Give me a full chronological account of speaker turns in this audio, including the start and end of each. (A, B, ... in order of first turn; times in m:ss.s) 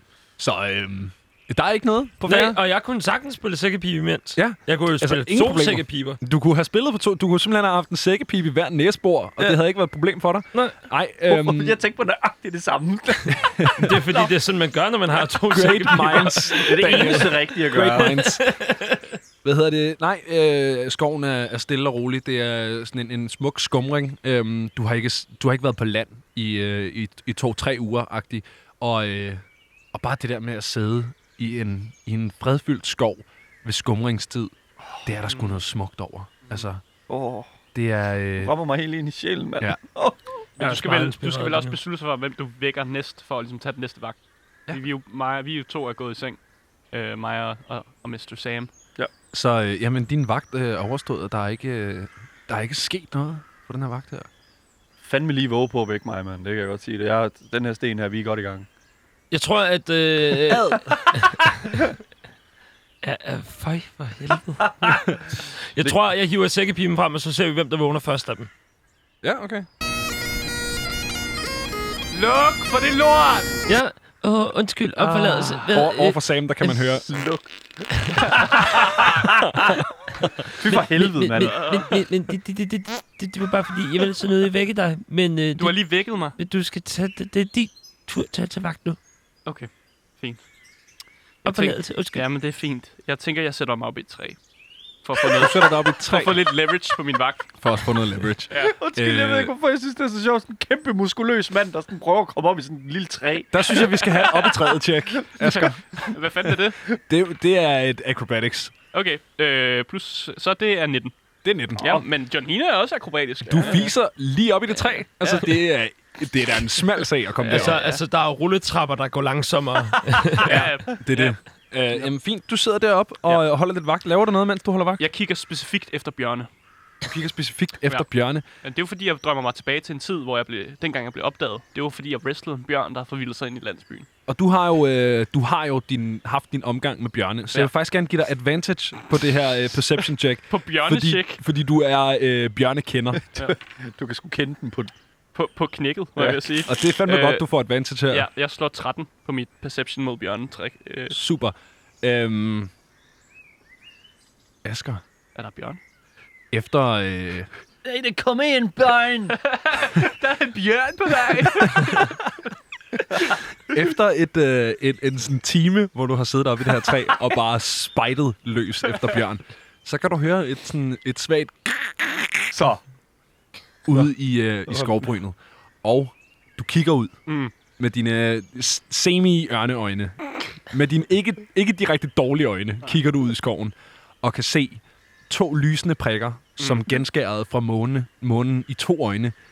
0:00.4-0:02.6 A
0:02.2-0:06.2 B
0:04.4-0:11.8 A
0:11.3-0:14.3 C
0:13.4-0:14.0 A
0:13.8-0:19.2 B
0:15.5-0:18.4 A
0:16.0-0:18.2 C
0:19.4-0:34.5 A
0:35.0-0:36.8 A
0:35.3-0:35.6 D
0:37.1-0:37.5 C
0:37.7-0:38.5 A
0:38.4-0:40.4 C
0:40.6-0:44.2 D
0:40.6-0:41.8 B
0:44.7-0:46.4 D
0:46.9-0:48.7 D
0:49.3-0:54.3 A
0:55.0-0:58.7 C
0:59.3-1:01.9 B
1:00.5-1:01.1 A
1:03.0-1:05.1 B
1:05.7-1:08.5 B
1:09.2-1:09.7 A
1:12.1-1:13.5 D
1:13.7-1:16.8 B
1:15.0-1:17.1 A
1:17.1-1:17.5 C
1:17.9-1:18.4 B
1:18.2-1:19.8 C
1:19.6-1:25.8 B
1:20.4-1:21.8 C
1:21.4-1:22.0 D
1:25.6-1:26.4 D
1:26.4-1:29.0 B
1:29.5-1:30.4 D
1:31.4-1:32.2 B
1:31.4-1:34.4 D
1:35.0-1:37.5 D
1:35.3-1:36.4 A
1:37.6-1:39.5 A
1:38.5-1:38.8 D
1:38.5-1:45.6 C
1:43.5-1:48.7 A
1:45.4-1:46.8 D
1:48.9-1:51.1 D
1:51.4-1:51.9 A
1:51.8-1:52.1 C
1:51.8-1:53.9 D
1:53.5-1:57.8 A
1:55.2-1:55.6 D
1:57.4-1:58.0 D
1:57.5-2:00.5 B
2:00.4-2:01.4 D
2:00.5-2:05.0 A
2:05.0-2:06.5 D
2:07.0-2:08.4 A
2:08.6-2:14.1 D
2:14.3-2:23.2 A
2:20.5-2:21.4 D
2:23.4-2:24.9 C
2:25.4-2:27.4 D
2:26.2-2:26.5 C
2:26.6-2:28.3 A
2:28.1-2:31.2 D
2:31.1-2:32.7 A
2:34.6-2:35.0 A
2:35.4-2:35.8 D
2:36.5-2:37.5 A
2:37.8-2:39.4 C
2:39.3-2:42.2 D
2:41.7-2:42.0 C
2:43.7-2:52.1 A
2:52.5-2:52.8 C
2:53.9-2:57.1 A
2:54.7-2:55.0 C
2:57.3-2:57.5 D
2:57.8-3:09.4 A
3:06.6-3:07.0 D